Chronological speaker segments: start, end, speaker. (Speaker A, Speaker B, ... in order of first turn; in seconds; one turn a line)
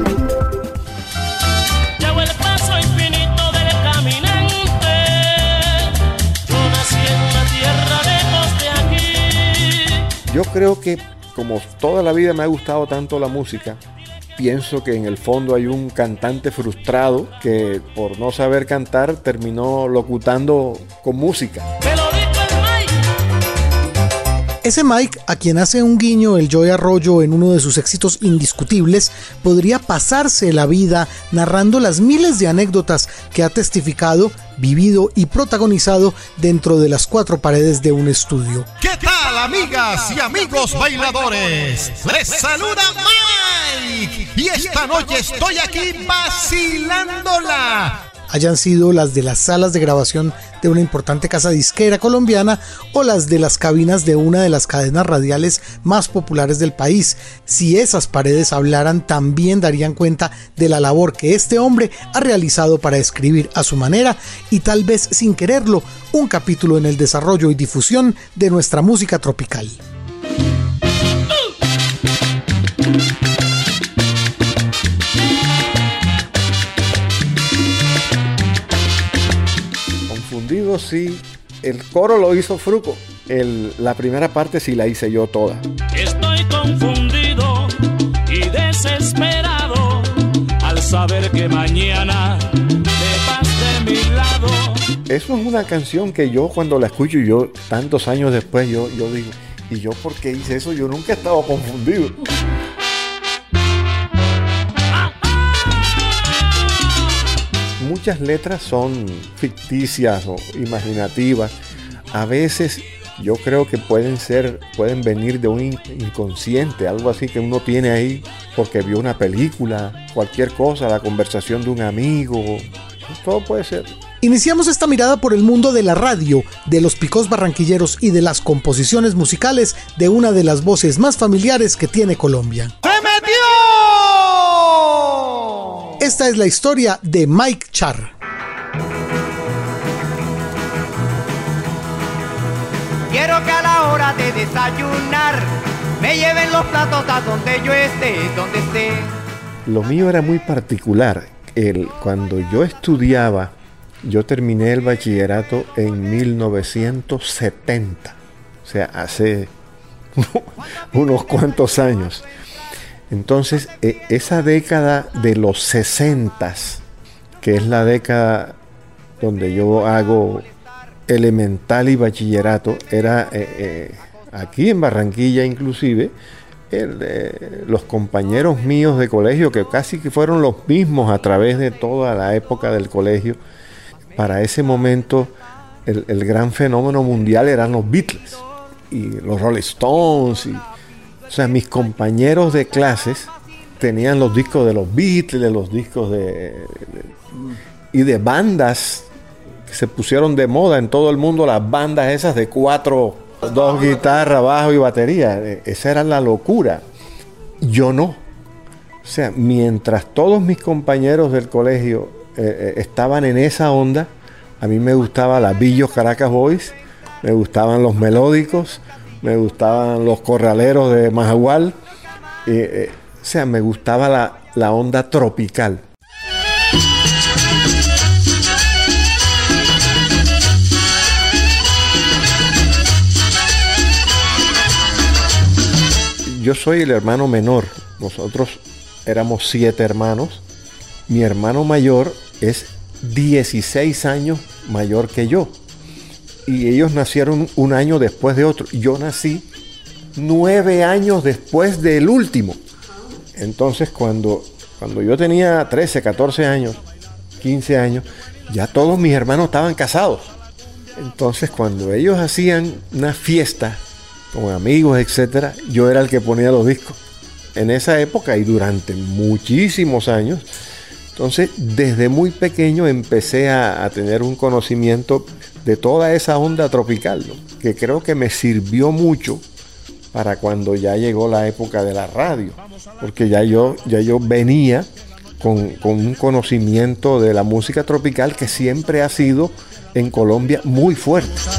Speaker A: 2.0-6.0
Speaker A: 6.5-10.1
Speaker B: 10.3-13.8
Speaker B: 14.4-21.7
Speaker A: 21.8-23.0
Speaker C: 24.6-38.7
Speaker D: 38.8-48.0
Speaker C: 48.3-69.8
Speaker B: 80.1-85.7
Speaker A: 85.9-94.9
Speaker B: 95.1-102.3
Speaker B: 107.8-111.5
Speaker B: 112.1-124.0
Speaker C: 124.2-132.8
Speaker D: 132.8-135.3
Speaker C: 136.0-138.1
Speaker E: 143.1-149.1
Speaker B: 149.7-159.5
Speaker B: 160.2-162.3
Speaker B: 163.1-166.8
Speaker B: 167.4-168.6
Speaker B: 169.2-170.5
Speaker B: 171.1-176.2
Speaker B: 176.7-183.4
Speaker B: 184.2-185.3
Speaker B: 185.9-190.6
Speaker B: 191.3-197.2
Speaker B: 197.9-199.1
Speaker B: 199.7-206.8
Speaker B: 207.6-208.2
Speaker B: 209.0-221.8
Speaker B: 222.4-225.8
Speaker B: 236.2-240.4
Speaker B: 241.1-245.6
Speaker B: 246.4-249.5
Speaker B: 250.2-252.6
Speaker B: 253.3-256.8
Speaker B: 257.4-260.3
Speaker B: 261.0-267.0
Speaker B: 267.6-270.5
Speaker B: 271.1-279.4
Speaker B: 280.1-284.9
Speaker B: 285.4-291.5